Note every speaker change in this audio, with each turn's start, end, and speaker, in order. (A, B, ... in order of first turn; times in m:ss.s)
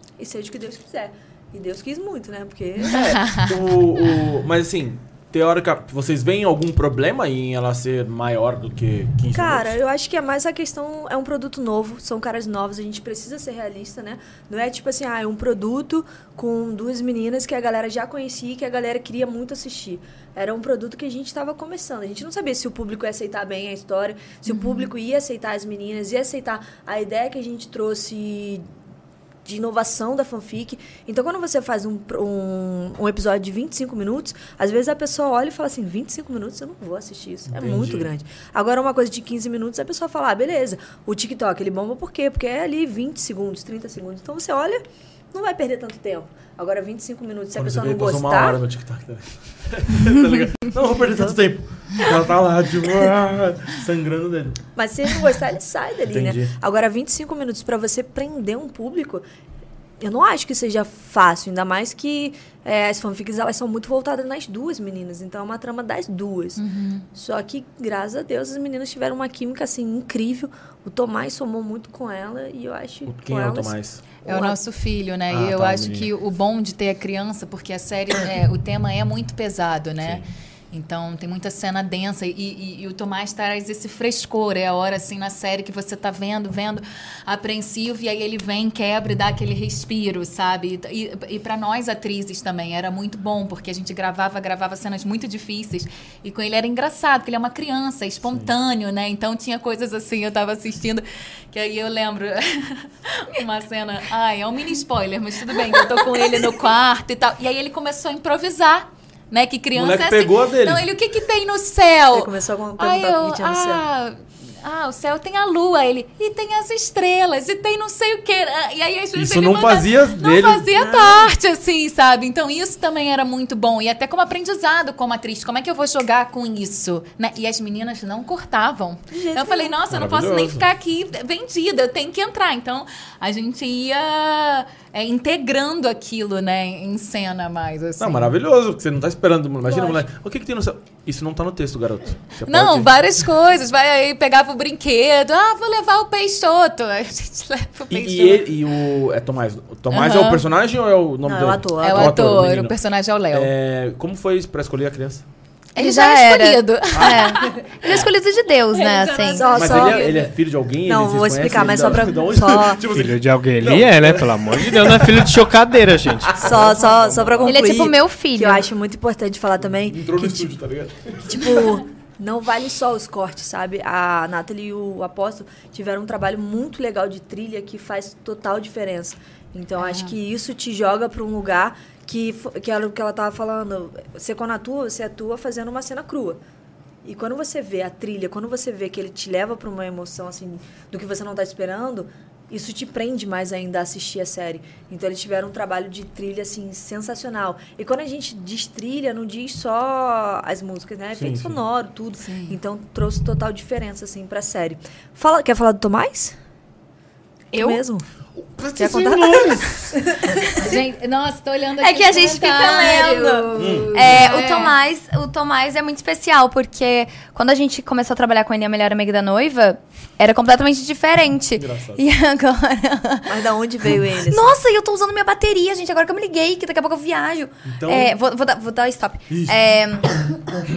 0:00.2-0:03.2 A
0:02.9-0:09.8 B
0:02.9-0:03.5 C
0:09.3-0:28.6 A
0:24.5-0:24.9 C
0:29.4-0:48.6 A
0:37.5-0:38.1 B
0:47.6-0:54.6 B
0:54.8-0:59.2 A
0:56.1-0:56.5 B
1:00.0-1:06.6 A
1:06.6-1:07.1 C
1:07.1-1:14.6 A
1:13.1-1:14.0 B
1:14.2-2:18.3 C
1:15.3-1:16.1 B
1:20.0-1:20.3 B
1:49.7-1:50.8 B
1:52.1-1:53.8 A
1:59.2-2:00.6 B
2:00.7-2:01.3 A
2:09.1-2:09.8 A
2:09.9-2:10.6 B
2:18.0-2:22.9 B
2:19.7-2:20.0 A
2:22.5-2:28.5 C
2:27.9-2:32.7 B
2:29.9-2:30.4 C
2:31.2-2:32.2 A
2:31.8-2:33.5 C
2:33.3-2:35.2 B
2:35.8-2:38.0 C
2:35.8-2:39.5 D
2:38.7-2:40.3 C
2:39.3-2:40.1 A
2:39.6-2:45.4 B
2:40.8-2:42.8 A
2:42.8-2:46.6 E
2:46.3-2:47.5 B
2:46.4-2:50.5 A
2:47.4-2:48.6 D
2:49.8-2:51.6 B
2:51.2-3:06.4 A
2:59.8-3:00.1 C
3:07.0-3:26.4 A
3:21.2-3:21.6 B
3:22.2-3:22.6 C
3:27.5-3:28.1 A
3:28.4-3:30.0 B
3:28.8-3:30.8 A
3:30.5-3:34.8 C
3:31.8-3:43.4 D
3:33.6-3:34.2 B
3:41.6-3:42.0 B
3:43.3-3:44.6 A
3:44.1-3:50.2 D
3:47.7-3:48.1 B
3:49.3-3:49.6 B